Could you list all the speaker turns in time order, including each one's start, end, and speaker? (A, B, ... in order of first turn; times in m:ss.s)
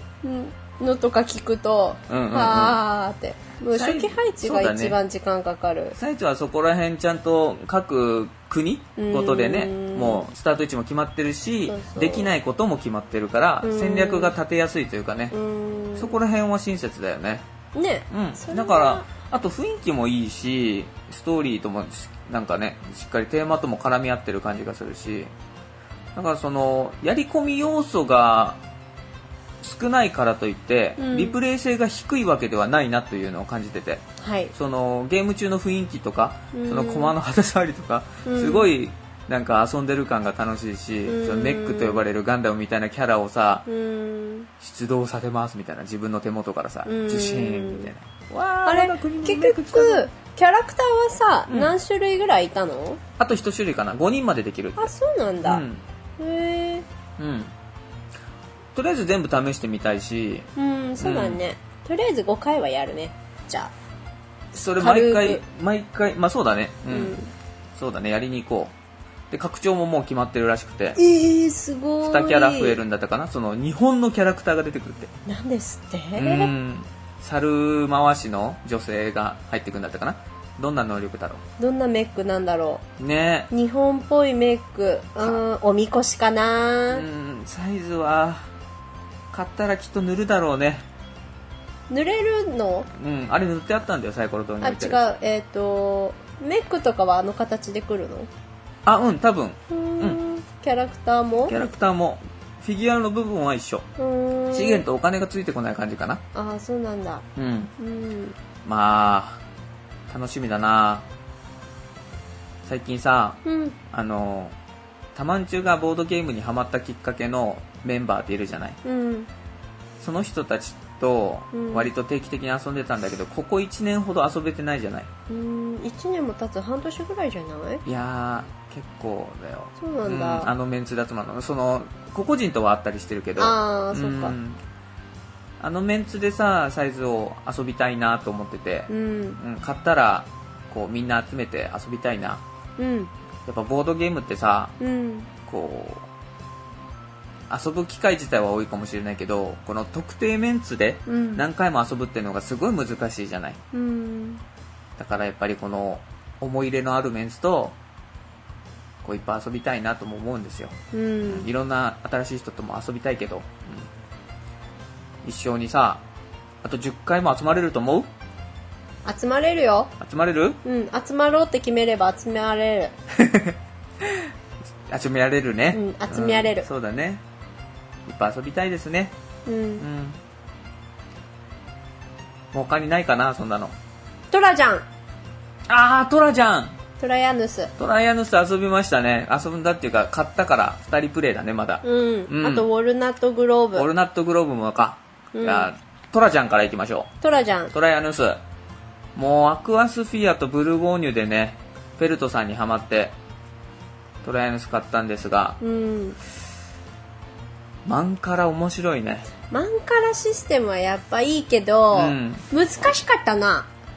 0:00.2-0:06.0 A
0:02.1-0:02.8 B
0:03.7-0:05.0 B
0:06.0-0:15.3 B
0:09.0-0:10.3 A
0:11.7-0:12.3 A
0:13.6-0:14.3 A
0:15.3-0:16.2 A
0:16.0-0:17.4 B
0:17.7-0:19.1 A
0:18.1-0:25.3 B
0:26.2-0:28.6 B
0:29.6-0:43.7 B
0:31.0-0:31.4 A
0:34.2-0:34.5 A
0:36.5-0:37.1 A
0:38.3-0:38.7 A
0:41.1-0:42.1 A
0:43.7-0:44.5 A
0:44.6-0:50.1 B
0:46.9-0:47.9 A
0:48.6-0:53.0 A
0:51.5-0:51.7 B
0:53.2-0:54.9 B
0:54.8-0:55.6 A
0:55.4-0:55.8 B
0:56.2-0:56.9 A
0:57.2-0:57.5 B
0:58.8-1:00.5 B
1:00.6-1:03.7 A
1:01.0-1:01.4 B
1:04.5-1:07.2 B
1:04.8-1:05.4 A
1:06.9-1:07.3 A
1:07.8-1:08.7 B
1:09.3-1:11.0 B
1:11.0-1:12.8 A
1:12.0-1:15.1 B
1:15.3-1:16.5 A
1:16.2-1:21.4 B
1:21.6-1:22.8 A
1:23.0-1:23.5 B
1:23.5-1:27.0 A
1:26.9-1:28.5 B
1:29.3-1:30.8 B
1:31.9-1:32.9 A
1:33.0-1:35.1 B
1:34.6-1:38.3 A
1:38.9-1:40.2 B
1:39.7-1:41.7 A
1:41.4-1:43.9 B
1:44.0-1:44.8 A
1:44.5-1:46.2 B
1:46.3-1:47.3 A
1:47.4-1:47.7 B
1:47.8-1:48.4 A
1:48.6-1:49.4 B
1:50.1-1:51.0 B
1:52.7-1:54.6 B
1:53.4-1:53.8 A
1:55.2-1:58.8 B
1:58.8-1:59.3 A
2:00.0-2:05.1 B
2:01.5-2:01.9 A
2:05.3-2:07.8 A
2:07.8-2:14.6 B
2:09.8-2:10.5 A
2:13.4-2:14.4 A
2:15.6-2:22.4 B
2:18.9-2:19.4 A
2:22.8-2:23.1 A
2:23.5-2:24.8 B
2:24.8-2:25.3 A
2:25.5-2:26.1 B
2:27.5-2:33.6 B
2:31.1-2:31.4 A
2:33.7-2:34.4 A
2:35.0-2:37.8 B
2:39.0-2:43.9 B
2:40.9-2:41.5 A
2:45.2-2:46.0 B
2:46.6-2:48.1 B
2:49.0-2:49.9 A
2:50.0-2:50.6 B
2:50.6-2:52.9 A
2:53.1-2:54.2 B
2:54.9-2:57.2 B
2:55.7-2:56.7 A
2:58.1-2:59.1 B
2:59.5-2:59.8 A
2:59.8-3:00.2 B
3:02.5-3:03.7 B
3:04.3-3:04.8 A
3:05.7-3:06.8 B
3:07.0-3:07.7 A
3:07.8-3:12.6 B
3:11.8-3:13.9 A
3:13.8-3:17.1 B
3:15.3-3:15.7 A
3:17.2-3:17.7 A
3:17.7-3:18.4 B
3:19.2-3:23.2 B
3:24.2-3:25.6 B
3:25.6-3:26.2 A
3:27.9-3:29.3 B
3:29.5-3:33.7 A
3:31.9-3:32.5 B